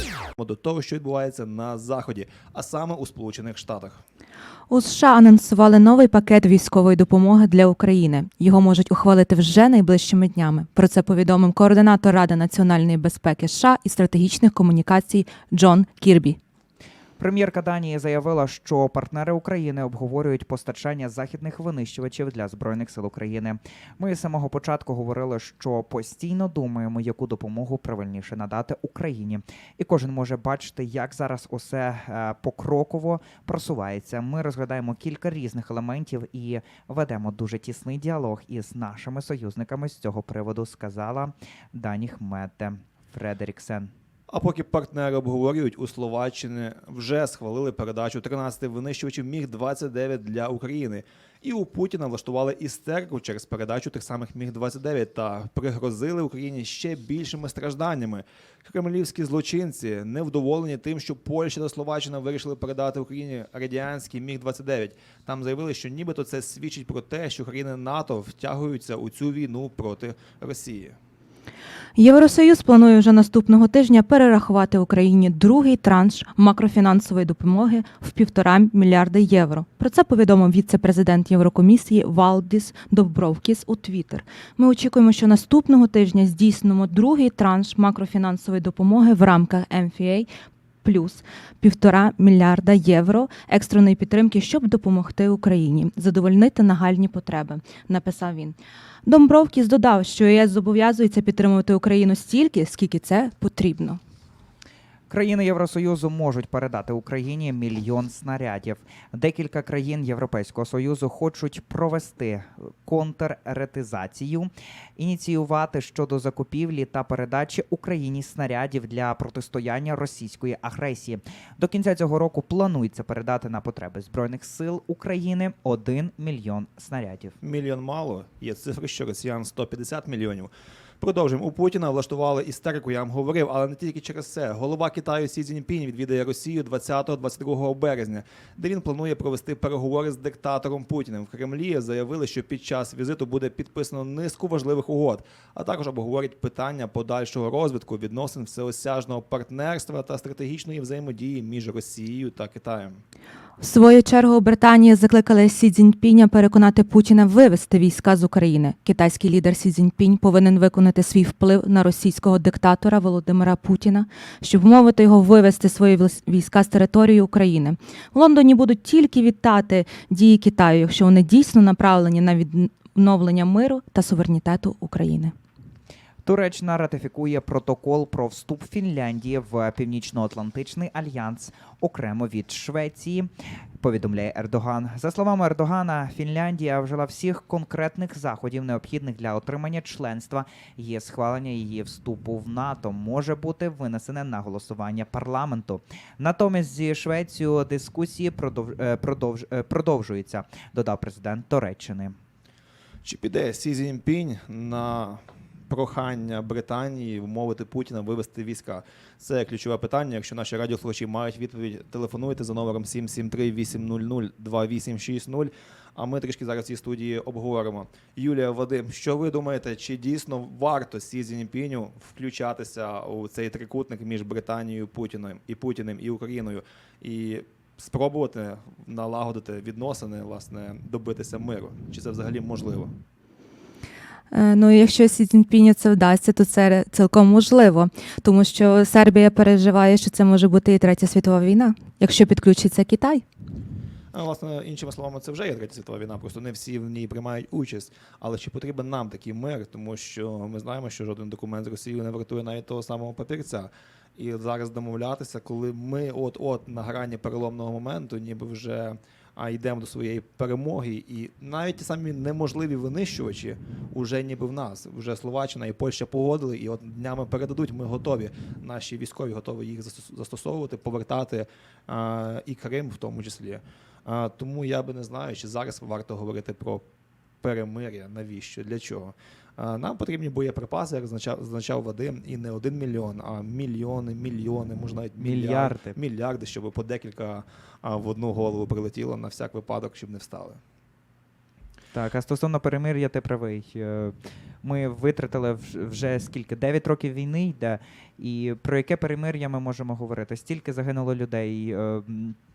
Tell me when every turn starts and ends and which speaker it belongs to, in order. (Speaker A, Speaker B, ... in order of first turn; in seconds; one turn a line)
Speaker A: 0.4-4.0
Speaker B: 4.7-16.4
Speaker C: 17.2-43.9
Speaker A: 44.3-71.0
Speaker B: 72.0-90.3
Speaker B: 90.8-104.0
Speaker C: 105.1-127.3
Speaker A: 127.4-153.0
Speaker B: 153.6-175.3
Speaker C: 176.2-183.3
Speaker C: 183.8-202.1
Speaker A: 203.1-232.9
Speaker B: 234.3-243.2
Speaker A: 244.1-276.8
Speaker A: 277.4-290.6
Speaker C: 285.2-286.0
Speaker C: 291.9-302.4